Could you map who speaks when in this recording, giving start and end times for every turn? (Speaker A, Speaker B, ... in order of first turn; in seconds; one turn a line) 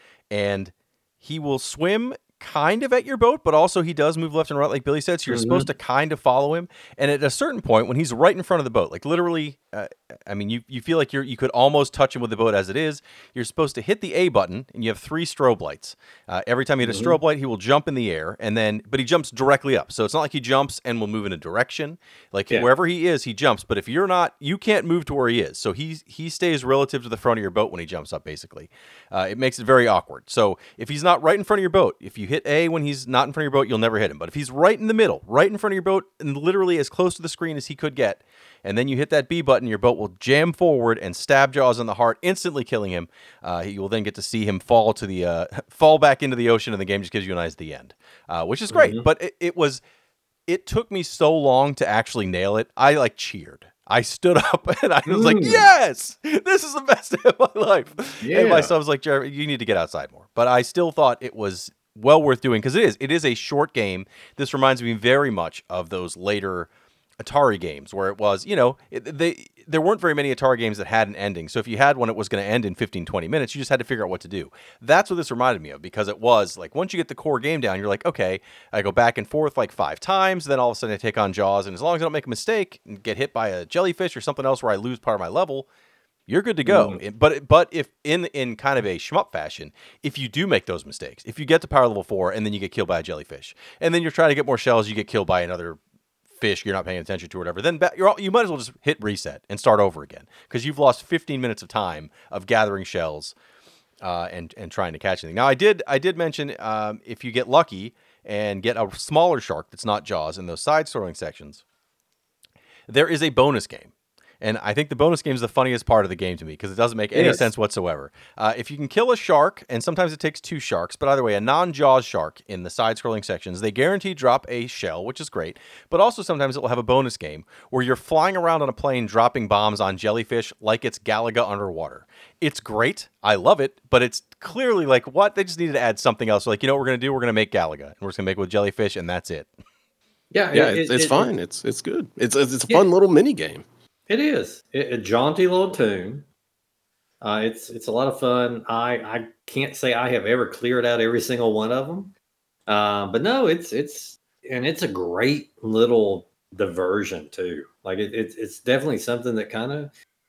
Speaker A: 0.3-49.8
Speaker B: 5.3-5.7
Speaker B: 16.8-17.2
Speaker B: 48.7-49.0
Speaker A: 50.5-85.7
Speaker B: 55.1-55.6
Speaker B: 58.2-58.7
Speaker A: 86.3-95.8
Speaker B: 86.7-87.0
Speaker A: 96.4-103.3
Speaker A: 104.0-111.6
Speaker A: 112.9-139.5
Speaker B: 117.1-117.5
Speaker B: 140.3-141.3
Speaker C: 140.5-143.6
Speaker B: 144.1-146.3
Speaker B: 147.2-152.1
Speaker B: 152.7-159.9